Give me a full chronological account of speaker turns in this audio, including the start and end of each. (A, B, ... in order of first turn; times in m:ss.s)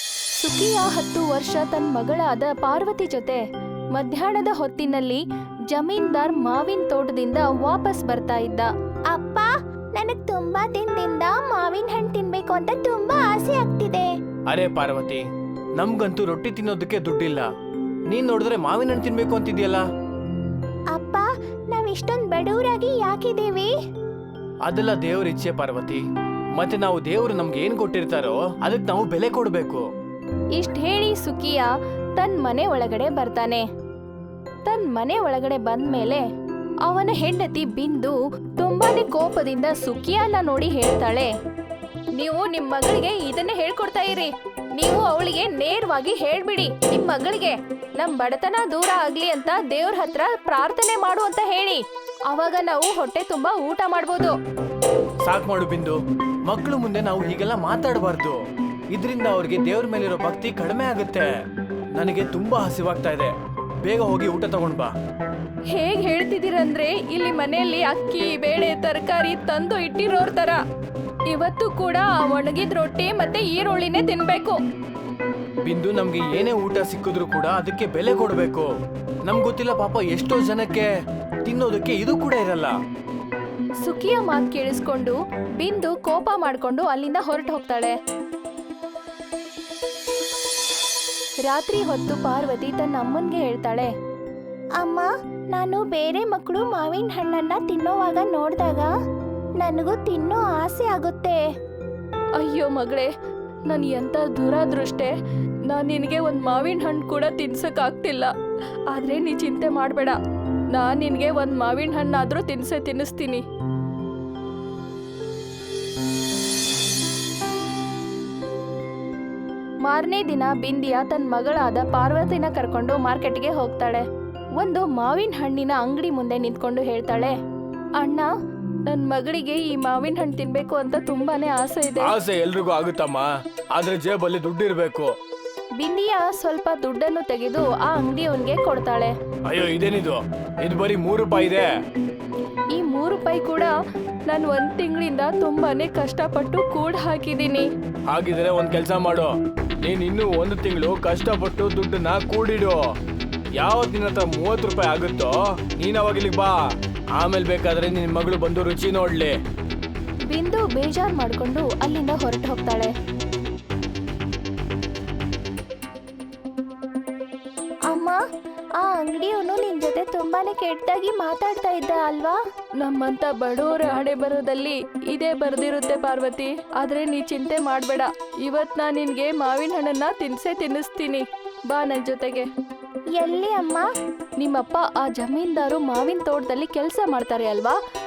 0:00.4-0:03.4 A
0:03.9-0:08.7 A
0:09.1-0:14.1 B
0:14.5-0:15.2 C
0:15.8-0:17.5 C
0:18.1-0:19.8 C
0:20.9-0:23.7 B
0:24.6-0:26.0 C
0:26.6-0:29.8 C
0:30.6-0:33.6 A
0:34.6-0:36.2 A
0:36.8-0:41.3 A
0:42.2-0:54.4 A
0:55.2-0:58.4 C
0:58.9-1:01.3 C
1:01.9-1:04.9 C
1:05.7-1:10.6 A
1:11.3-1:14.6 A
1:15.6-1:18.7 C
1:19.2-1:20.9 C
1:21.4-1:22.8 C
1:23.8-1:28.0 A
1:31.4-1:33.9 A
1:34.8-1:38.9 B
1:39.6-1:41.4 B
1:42.4-1:43.1 A
1:43.7-1:45.1 A
1:45.7-1:48.3 A
1:48.9-1:50.2 A
1:50.7-1:53.4 A
1:59.8-2:04.0 A
2:04.6-2:07.3 A
2:08.0-2:08.3 A
2:08.9-2:12.2 A
2:12.0-2:15.1 C
2:15.8-2:19.1 A
2:19.5-2:21.7 C
2:22.8-2:23.7 A
2:24.3-2:27.7 A
2:28.1-2:32.8 C
2:33.6-2:36.6 C
2:37.1-2:39.4 C
2:40.3-2:42.9 A
2:48.9-2:52.3 A
2:49.1-2:52.3 B
2:52.8-3:02.5 A
3:03.2-3:03.8 B
3:04.4-3:07.8 A